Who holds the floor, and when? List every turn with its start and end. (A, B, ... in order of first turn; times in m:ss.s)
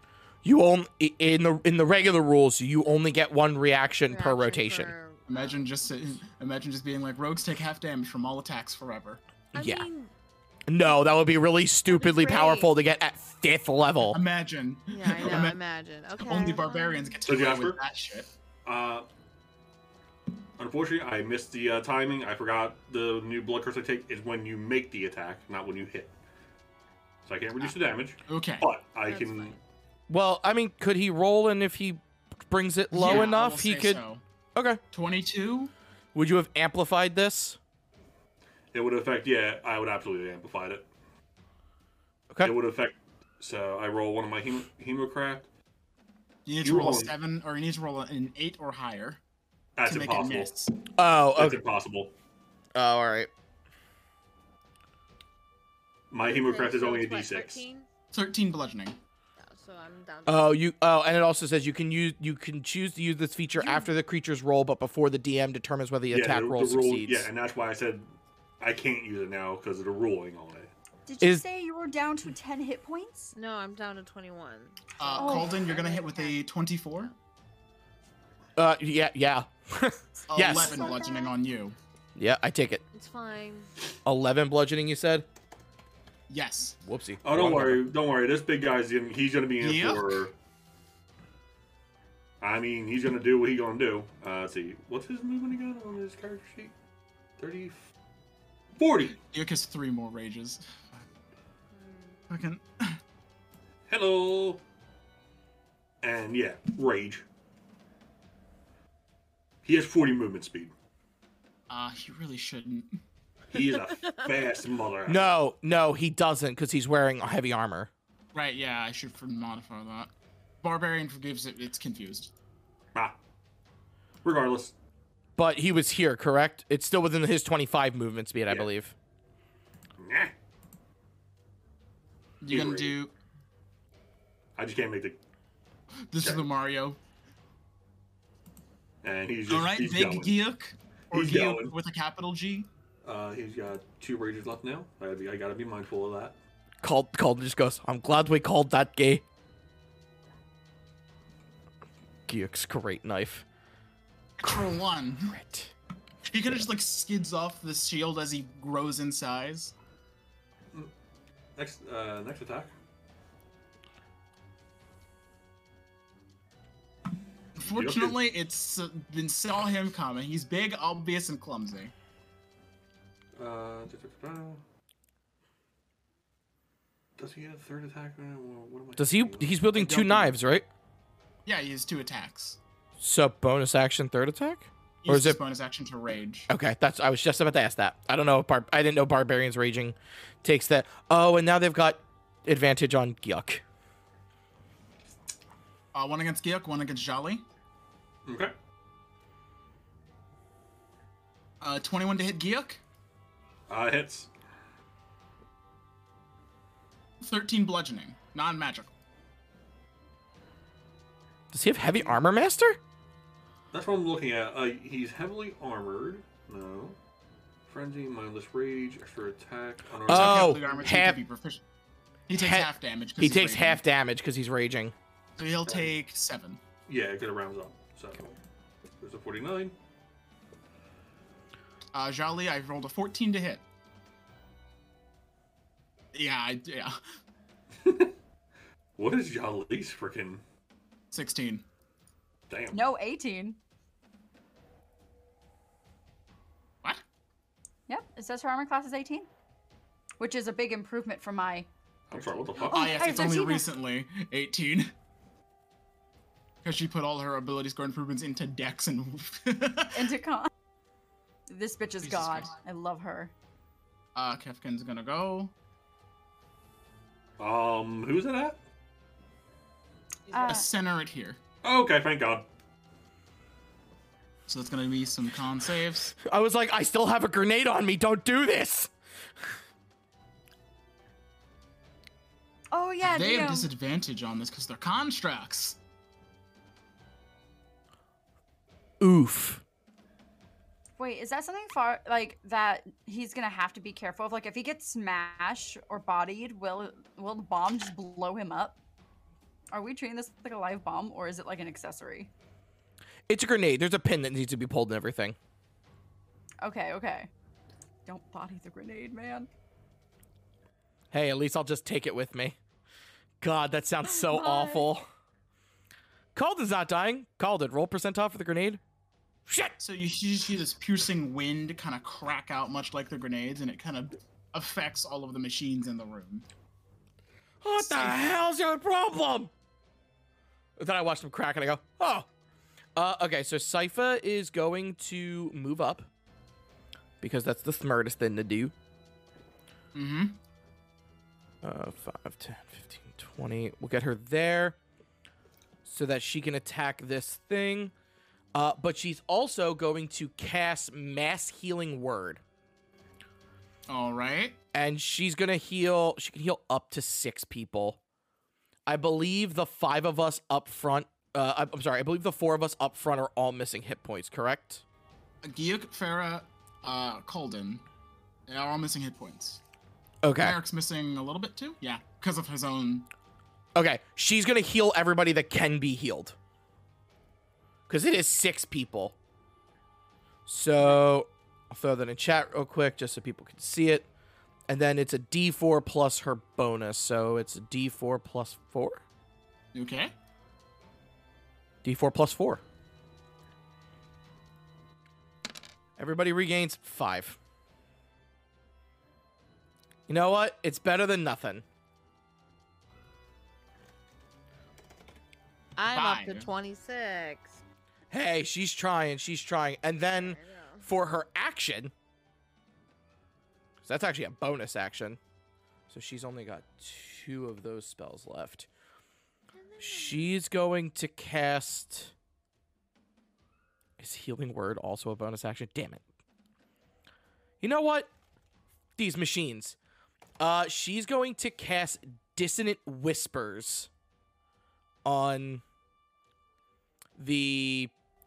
0:00.4-0:04.9 A
0:04.1-0:05.7 B
0:05.3-0:09.2 C
0:09.5-0:10.1 B
0:09.6-0:09.9 A
0:10.7-0:14.2 A
0:11.9-0:12.7 B
0:14.0-0:15.6 C
0:14.9-0:17.2 B
0:16.2-0:18.3 C
0:17.3-0:17.8 D
0:18.6-0:19.1 D
0:20.6-0:26.1 D
0:27.3-0:29.6 D
0:28.3-0:28.7 C
0:29.0-0:29.6 B
0:30.1-0:34.0 A
0:32.9-0:34.2 C
0:33.0-0:33.3 D
0:34.6-0:34.8 A
0:34.9-0:35.7 C
0:36.1-0:37.6 A
0:38.7-0:40.9 D
0:42.4-0:45.5 D
0:46.5-0:49.2 C
0:46.6-0:47.1 D
0:49.8-0:50.5 D
0:49.8-0:50.8 C
0:51.0-0:51.6 A
0:51.3-0:52.1 D
0:52.8-0:53.3 A
0:56.1-0:57.6 D
0:56.2-0:57.9 B
0:58.1-0:59.0 C
0:59.4-1:00.6 B
1:00.3-1:07.3 A
1:03.6-1:03.9 E
1:06.1-1:10.7 D
1:11.1-1:13.3 E
1:13.3-1:16.4 B
1:15.0-1:17.1 C
1:15.2-1:15.6 E
1:18.6-1:20.9 A
1:20.3-1:21.8 C
1:20.4-1:21.4 E
1:22.2-1:22.8 A
1:22.9-1:23.7 B
1:24.0-1:25.3 A
1:26.3-1:26.8 C
1:26.8-1:27.9 A
1:27.2-1:30.3 D
1:29.6-1:30.2 C
1:32.4-1:36.7 D
1:37.4-1:37.9 D
1:38.8-1:39.2 D
1:39.2-1:41.0 C
1:41.7-1:42.2 B
1:42.3-1:43.0 C
1:43.9-1:44.6 D
1:46.0-1:47.2 D
1:49.6-1:50.7 D
1:51.7-1:53.0 C
1:53.5-1:55.3 D
1:55.1-1:57.9 A
1:58.3-2:00.1 C
2:00.6-2:02.3 C
2:04.2-2:04.7 D
2:05.4-2:08.9 A
2:10.0-2:10.3 D
2:12.4-2:13.1 C
2:12.5-2:13.0 D
2:14.6-2:15.2 D
2:16.1-2:17.0 C
2:16.2-2:16.5 D
2:19.0-2:20.4 D
2:19.5-2:22.7 C
2:21.1-2:21.7 D
2:23.0-2:26.4 D
2:26.8-2:29.2 A
2:32.3-2:33.4 A
2:34.4-2:35.4 C
2:34.4-2:35.7 A
2:36.3-2:39.7 C
2:41.6-2:42.7 D
2:47.6-2:51.9 C
2:47.7-2:48.2 D
2:53.4-2:54.6 D
2:57.2-2:59.6 D
2:59.0-3:00.7 A
2:59.7-3:00.3 C
3:01.5-3:02.6 C
3:03.0-3:05.4 A
3:05.0-3:06.5 C
3:06.5-3:13.6 A
3:15.9-3:17.4 C
3:18.3-3:18.5 D
3:21.6-3:22.8 C
3:23.7-3:24.3 D
3:27.2-3:28.9 C
3:31.5-3:32.8 A
3:33.7-3:37.0 D
3:37.7-3:40.8 D
3:40.1-3:41.2 A
3:40.1-3:41.6 C
3:42.3-3:43.8 C
3:42.3-3:44.9 A
3:45.4-3:46.6 C
3:45.6-3:45.9 D
3:46.9-3:48.4 D
3:49.0-3:49.7 D
3:51.9-3:53.6 C
3:56.1-3:57.0 C
3:57.8-3:58.1 D
3:59.0-4:00.4 D
4:01.1-4:01.6 C
4:02.5-4:02.8 D
4:02.7-4:03.6 E
4:07.9-4:09.3 E
4:10.2-4:11.7 E
4:12.1-4:13.0 D
4:12.6-4:14.9 C
4:12.6-4:13.7 E
4:16.6-4:20.1 C
4:20.0-4:20.5 E
4:21.5-4:23.3 E
4:22.0-4:22.5 C
4:24.2-4:25.5 C
4:27.4-4:28.6 D
4:30.3-4:30.7 E
4:30.4-4:31.4 C
4:31.6-4:32.5 D
4:34.5-4:36.1 C
4:36.1-4:38.9 A
4:42.7-4:43.7 E
4:43.0-4:45.8 C
4:49.0-4:49.6 A
4:51.0-4:58.8 E
4:59.7-5:02.3 E
5:03.3-5:05.4 A
5:06.6-5:07.3 E
5:08.1-5:09.5 E
5:11.1-5:12.6 A
5:13.4-5:15.1 A
5:14.1-5:14.9 E
5:16.4-5:18.8 A
5:19.5-5:19.8 A
5:19.8-5:26.5 C
5:27.6-5:29.5 A
5:27.8-5:28.2 C
5:30.8-5:32.3 A
5:33.0-5:36.1 A
5:37.2-5:38.7 A
5:39.9-5:40.4 C
5:41.6-5:44.8 A
5:45.8-5:47.9 A
5:48.5-5:52.4 A
5:53.9-5:54.6 C
5:54.7-5:58.0 A
5:58.9-6:04.8 A
6:05.4-6:07.8 C
6:08.5-6:09.6 C
6:10.2-6:10.6 A
6:10.4-6:13.1 C
6:13.8-6:16.4 A
6:17.9-6:19.2 A
6:20.5-6:24.1 A
6:24.7-6:29.0 A
6:29.7-6:30.1 C
6:31.8-6:32.6 A
6:36.0-6:37.4 A
6:40.1-6:41.6 A
6:45.8-6:47.6 B
6:45.9-6:46.5 C
6:48.1-6:51.9 A
6:50.1-6:50.9 B
6:53.8-6:55.2 A
6:55.9-6:58.7 A
6:59.5-7:00.4 B
6:59.8-7:02.1 A
7:04.0-7:06.0 A
7:07.6-7:08.1 A
7:09.0-7:09.8 A
7:10.4-7:13.9 A
7:15.0-7:15.6 A
7:17.2-7:17.9 A